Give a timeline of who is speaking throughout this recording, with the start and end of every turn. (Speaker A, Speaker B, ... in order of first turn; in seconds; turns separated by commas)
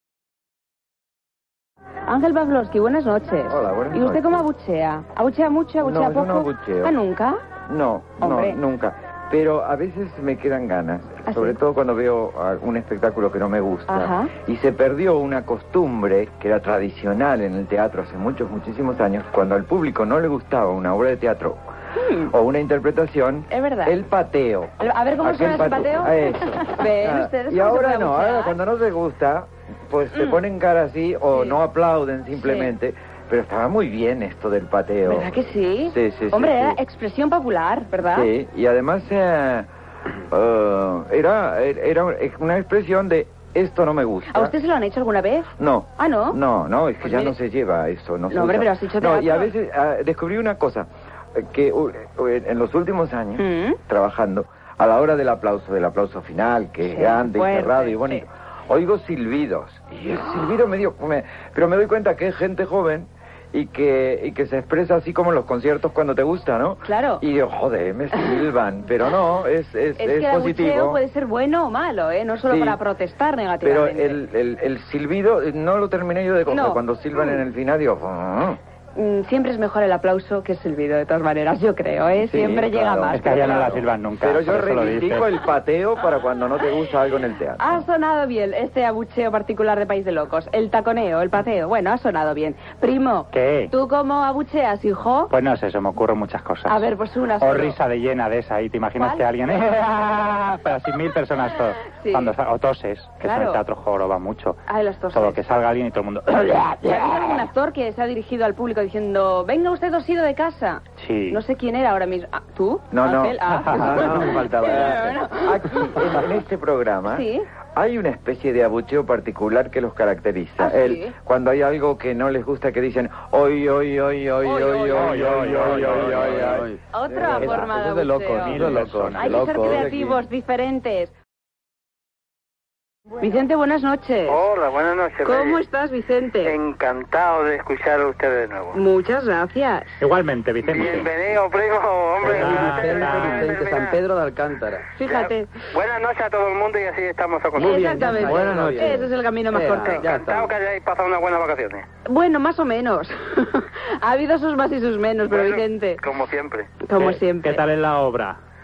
Speaker A: 2.1-7.4, Speaker B: 3.5-4.5, Speaker B: 5.8-7.0, Speaker B: 7.7-21.6, Speaker A: 8.2-8.6, Speaker A: 11.3-11.6, Speaker A: 13.9-14.3, Speaker A: 22.0-22.3, Speaker B: 22.3-36.8, Speaker A: 23.5-24.0, Speaker A: 24.8-28.6, Speaker A: 30.1-30.4, Speaker A: 32.4-32.7, Speaker A: 35.1-38.3, Speaker B: 38.1-39.7, Speaker B: 40.3-44.5, Speaker A: 44.3-46.4, Speaker B: 45.6-71.0, Speaker A: 47.0-47.3, Speaker A: 48.3-49.5, Speaker A: 53.4-53.8, Speaker A: 56.9-58.2, Speaker A: 66.8-67.2, Speaker A: 70.0-74.2, Speaker B: 72.5-72.8, Speaker B: 73.6-78.6, Speaker A: 76.5-77.4, Speaker A: 79.0-83.8, Speaker B: 82.1-87.8, Speaker C: 83.1-85.3, Speaker A: 87.6-95.3, Speaker C: 93.3-93.7, Speaker C: 95.3-96.8, Speaker A: 96.7-97.8, Speaker C: 97.4-107.4, Speaker A: 99.0-99.3, Speaker A: 102.0-102.3, Speaker A: 103.2-103.6, Speaker A: 104.7-105.4, Speaker A: 106.8-116.1, Speaker C: 111.0-111.4, Speaker B: 112.9-127.6, Speaker C: 113.5-114.0, Speaker D: 113.9-115.2, Speaker A: 117.1-117.5, Speaker A: 120.6-121.1, Speaker D: 124.4-130.2, Speaker A: 124.5-125.2, Speaker C: 124.9-126.6, Speaker A: 126.9-131.1, Speaker C: 128.4-129.7, Speaker B: 129.7-130.2, Speaker A: 133.2-134.4, Speaker E: 134.3-135.6, Speaker A: 135.2-136.6, Speaker E: 136.4-138.8, Speaker A: 138.7-140.0, Speaker C: 140.0-141.1, Speaker E: 140.7-144.0, Speaker D: 142.2-144.9, Speaker C: 142.2-143.5, Speaker A: 145.0-145.5, Speaker E: 145.0-148.5, Speaker D: 147.6-150.5, Speaker A: 147.6-150.1, Speaker B: 148.3-149.0, Speaker E: 150.0-151.8, Speaker A: 152.1-156.0, Speaker E: 155.3-156.7, Speaker A: 156.8-157.6, Speaker C: 157.4-158.4